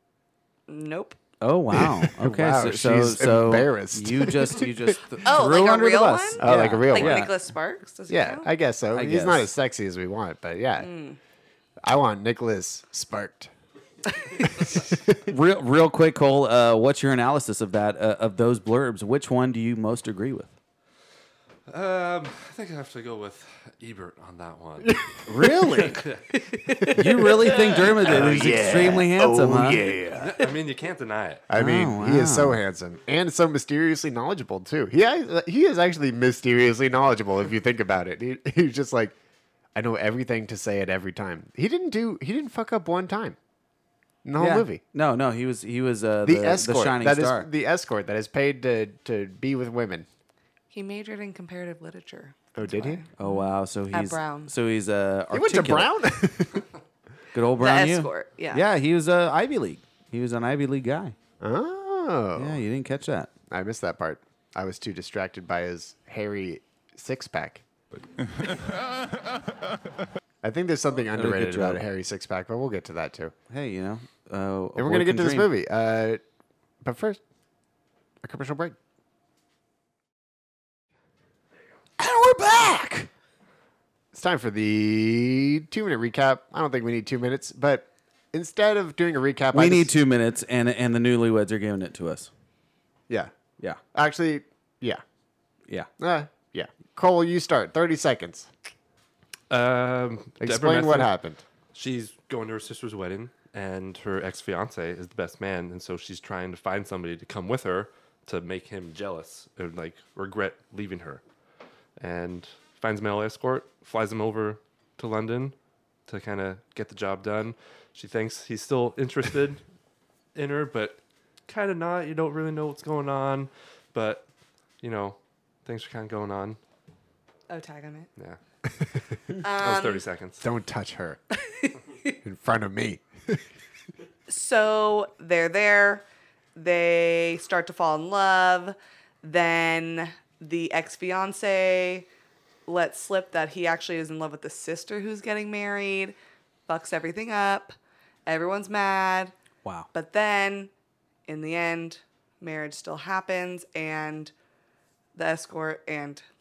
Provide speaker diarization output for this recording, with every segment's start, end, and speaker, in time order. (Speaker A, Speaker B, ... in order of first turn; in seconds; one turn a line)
Speaker A: 0.7-1.2
Speaker B: 1.4-7.3
Speaker C: 1.7-4.7
Speaker A: 5.2-8.5
Speaker C: 6.4-7.3
Speaker C: 8.1-10.9
Speaker B: 8.9-9.5
Speaker A: 10.8-11.2
Speaker C: 11.8-13.5
Speaker C: 14.4-15.2
Speaker B: 15.3-20.5
Speaker D: 21.7-25.2
Speaker B: 25.3-26.1
Speaker D: 25.7-26.2
Speaker B: 26.9-29.9
Speaker C: 27.5-30.5
Speaker D: 30.2-31.4
Speaker C: 31.5-39.2
Speaker B: 31.5-32.6
Speaker C: 39.8-43.4
Speaker C: 44.2-44.8
Speaker B: 44.4-47.5
Speaker C: 46.2-50.1
Speaker A: 50.7-54.5
Speaker C: 52.5-53.0
Speaker B: 53.2-55.9
Speaker C: 55.3-56.7
Speaker B: 57.3-61.1
Speaker A: 57.6-58.6
Speaker C: 61.4-62.6
Speaker B: 62.4-63.3
Speaker C: 63.5-67.6
Speaker C: 70.4-73.3
Speaker B: 71.1-71.8
Speaker B: 73.5-75.5
Speaker C: 74.8-76.2
Speaker C: 76.8-77.2
Speaker C: 78.2-78.8
Speaker B: 82.0-83.1
Speaker C: 84.1-89.9
Speaker B: 89.5-92.3
Speaker C: 93.9-95.0
Speaker C: 96.0-98.5
Speaker D: 99.5-101.1
Speaker C: 100.4-101.4
Speaker D: 101.7-111.2
Speaker D: 112.0-115.5
Speaker D: 116.1-119.6
Speaker D: 120.3-124.3
Speaker D: 124.8-126.6
Speaker A: 127.5-128.1
Speaker A: 129.4-130.1
Speaker D: 129.6-130.4
Speaker C: 130.4-131.2
Speaker C: 132.2-133.4
Speaker A: 134.3-136.0
Speaker A: 136.6-142.1
Speaker A: 142.7-146.2
Speaker A: 146.7-147.7
Speaker A: 148.3-149.3
Speaker B: 149.6-149.9
Speaker A: 149.9-150.7
Speaker A: 151.3-154.3
Speaker A: 155.2-156.2